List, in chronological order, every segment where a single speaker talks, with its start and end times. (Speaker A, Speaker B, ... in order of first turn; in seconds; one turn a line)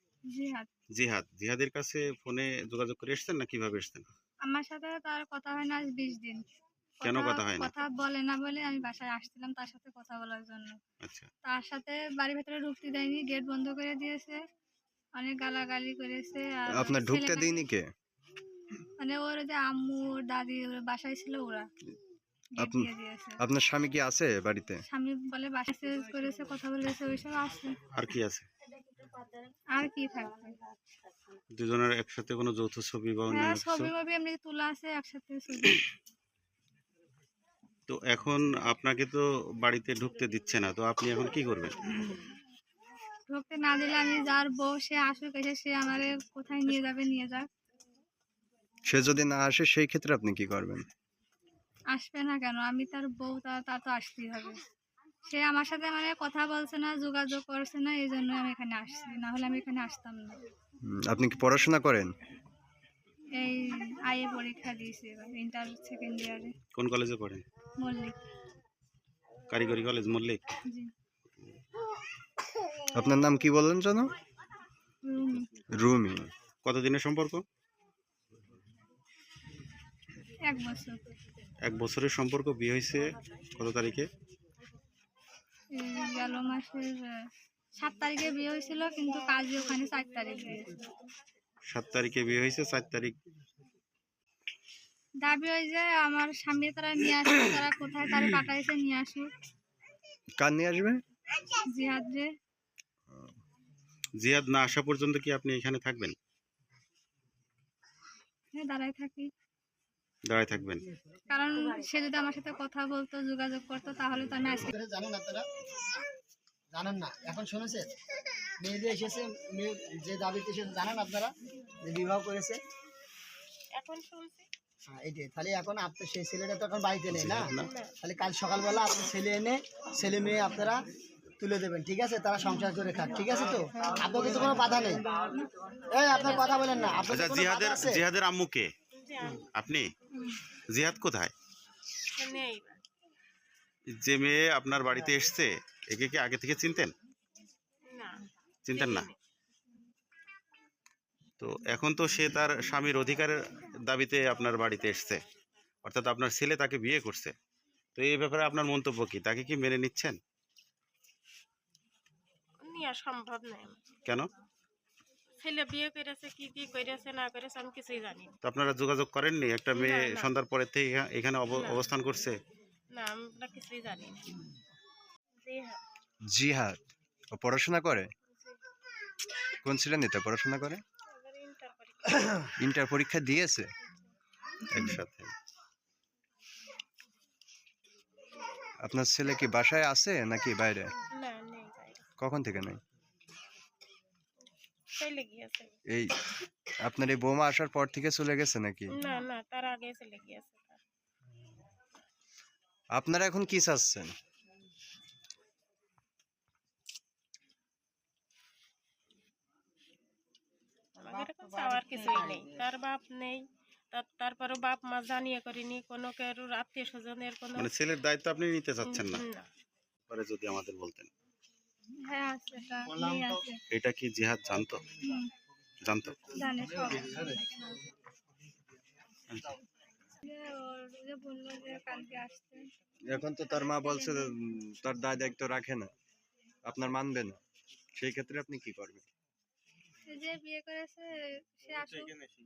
Speaker A: 0.3-0.7
Speaker B: 1.0-4.1
Speaker A: 4.5-6.4
Speaker A: 7.0-10.8
Speaker B: 7.0-7.7
Speaker B: 11.0-11.3
Speaker A: 11.4-14.4
Speaker A: 15.2-17.6
Speaker C: 16.7-17.9
Speaker A: 19.0-21.7
Speaker A: 22.5-23.4
Speaker C: 22.6-24.8
Speaker A: 24.9-27.8
Speaker B: 27.9-28.5
Speaker A: 29.7-30.6
Speaker B: 31.6-33.9
Speaker A: 33.3-35.8
Speaker B: 37.9-41.8
Speaker A: 43.3-47.5
Speaker C: 48.9-50.9
Speaker A: 51.9-54.6
Speaker A: 55.3-60.4
Speaker C: 60.9-62.1
Speaker A: 63.4-66.5
Speaker B: 66.8-67.4
Speaker A: 67.8-68.2
Speaker B: 69.5-70.4
Speaker C: 72.9-74.1
Speaker A: 75.0-75.5
Speaker C: 75.8-76.3
Speaker B: 76.7-77.4
Speaker A: 80.5-81.0
Speaker B: 81.6-84.1
Speaker A: 85.7-87.2
Speaker A: 87.8-90.8
Speaker B: 91.7-93.2
Speaker A: 95.2-99.3
Speaker C: 100.4-101.0
Speaker A: 101.7-102.3
Speaker B: 104.2-106.2
Speaker A: 108.5-109.3
Speaker B: 110.3-110.8
Speaker A: 111.3-114.7
Speaker D: 114.7-115.5
Speaker D: 116.7-117.9
Speaker D: 118.6-121.3
Speaker D: 121.8-122.6
Speaker E: 123.8-124.5
Speaker D: 124.9-130.8
Speaker B: 127.1-127.7
Speaker E: 127.6-127.9
Speaker D: 131.4-135.0
Speaker A: 132.4-132.8
Speaker A: 133.7-134.6
Speaker D: 135.9-138.0
Speaker B: 137.1-138.7
Speaker E: 138.9-139.5
Speaker B: 139.5-139.9
Speaker B: 140.7-141.3
Speaker E: 142.2-142.8
Speaker B: 144.0-146.9
Speaker E: 147.9-148.2
Speaker B: 148.7-149.1
Speaker E: 148.7-149.2
Speaker B: 151.4-155.2
Speaker B: 155.8-157.3
Speaker B: 158.0-160.2
Speaker E: 162.6-163.8
Speaker E: 165.4-168.4
Speaker B: 168.4-172.4
Speaker E: 169.7-170.3
Speaker E: 171.5-171.9
Speaker E: 172.9-174.2
Speaker E: 175.4-175.8
Speaker C: 176.3-176.8
Speaker C: 177.3-178.1
Speaker E: 178.3-178.6
Speaker C: 179.6-180.8
Speaker E: 181.1-182.5
Speaker C: 182.6-183.7
Speaker B: 184.7-185.3
Speaker C: 188.8-190.9
Speaker E: 191.1-192.1
Speaker C: 192.2-192.8
Speaker E: 194.9-195.8
Speaker C: 195.9-196.2
Speaker C: 196.8-199.0
Speaker E: 198.9-200.8
Speaker C: 203.0-204.2
Speaker E: 211.0-217.7
Speaker B: 217.6-219.2
Speaker E: 218.8-219.5
Speaker B: 220.1-221.1
Speaker A: 222.0-223.6
Speaker B: 223.7-224.8
Speaker A: 225.0-225.3
Speaker B: 225.9-226.3
Speaker A: 226.3-227.6
Speaker B: 229.3-229.6
Speaker A: 230.2-232.7
Speaker C: 233.1-235.9
Speaker A: 233.5-234.3
Speaker C: 236.7-237.4
Speaker C: 238.0-239.1
Speaker A: 240.1-242.1